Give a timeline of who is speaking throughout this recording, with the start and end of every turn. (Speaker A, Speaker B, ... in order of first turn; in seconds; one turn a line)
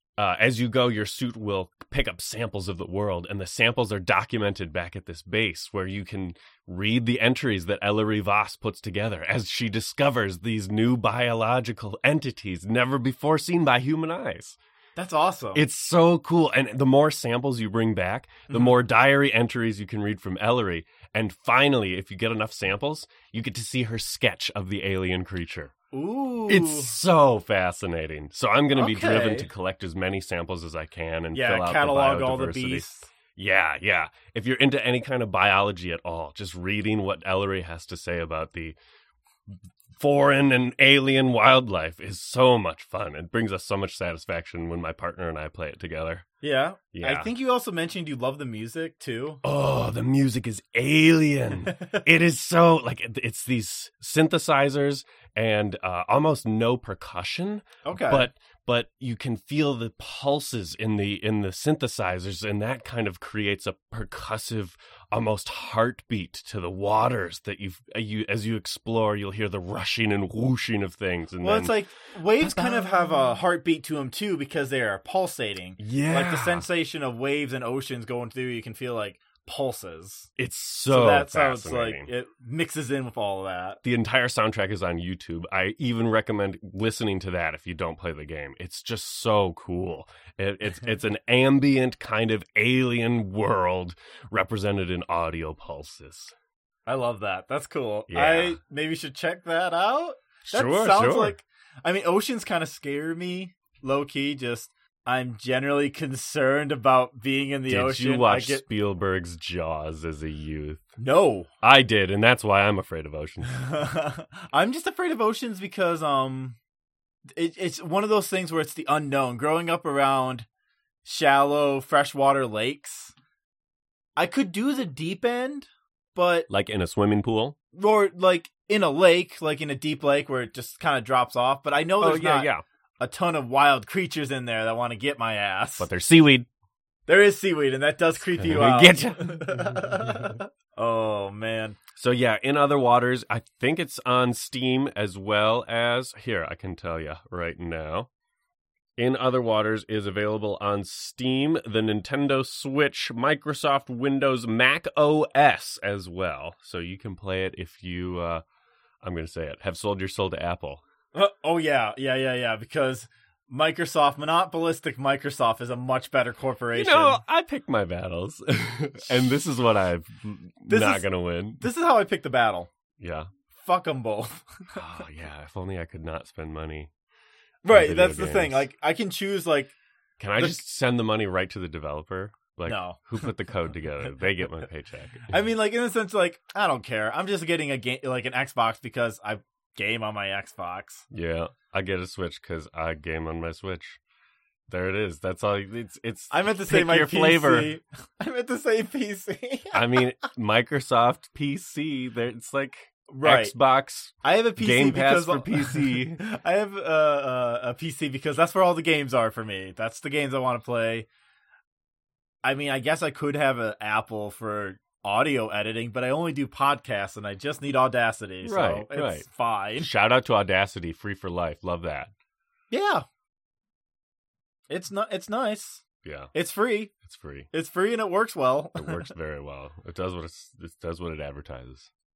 Speaker A: 0.2-14.6
Speaker B: 14.9-15.6
Speaker A: 15.5-25.7
Speaker B: 18.5-18.8
Speaker B: 25.9-26.9
Speaker A: 26.5-38.8
Speaker B: 28.8-29.5
Speaker B: 31.3-33.1
Speaker A: 39.5-46.3
Speaker B: 46.4-49.4
Speaker A: 46.9-47.3
Speaker A: 49.4-71.8
Speaker B: 57.8-58.3
Speaker B: 71.4-80.3
Speaker A: 72.4-73.4
Speaker A: 75.8-76.7
Speaker A: 80.4-82.1
Speaker B: 80.9-83.8
Speaker A: 83.8-96.3
Speaker B: 96.8-108.6
Speaker A: 98.1-98.6
Speaker A: 100.5-101.3
Speaker A: 107.7-110.8
Speaker B: 111.0-111.5
Speaker A: 111.6-113.8
Speaker B: 113.5-116.6
Speaker B: 117.3-120.5
Speaker B: 121.0-123.1
Speaker B: 124.2-126.5
Speaker A: 126.5-127.5
Speaker B: 127.7-135.9
Speaker A: 132.0-132.6
Speaker A: 135.8-136.5
Speaker B: 137.1-141.8
Speaker A: 138.3-140.4
Speaker A: 141.9-148.1
Speaker A: 149.0-158.4
Speaker A: 159.0-160.8
Speaker B: 161.1-167.2
Speaker A: 166.7-171.7
Speaker B: 170.7-172.7
Speaker A: 173.0-173.3
Speaker B: 173.6-174.8
Speaker A: 174.7-176.9
Speaker B: 177.6-179.7
Speaker A: 177.7-178.7
Speaker A: 180.2-185.3
Speaker B: 182.7-183.3
Speaker B: 185.3-191.0
Speaker A: 191.1-194.0
Speaker A: 194.7-197.7
Speaker B: 196.3-200.0
Speaker A: 199.7-206.2
Speaker B: 203.1-203.5
Speaker B: 204.2-211.1
Speaker B: 212.4-219.9
Speaker A: 218.4-222.1
Speaker B: 222.7-223.0
Speaker B: 224.7-226.9
Speaker A: 226.0-226.3
Speaker A: 227.0-227.5
Speaker B: 227.5-229.1
Speaker A: 228.8-231.9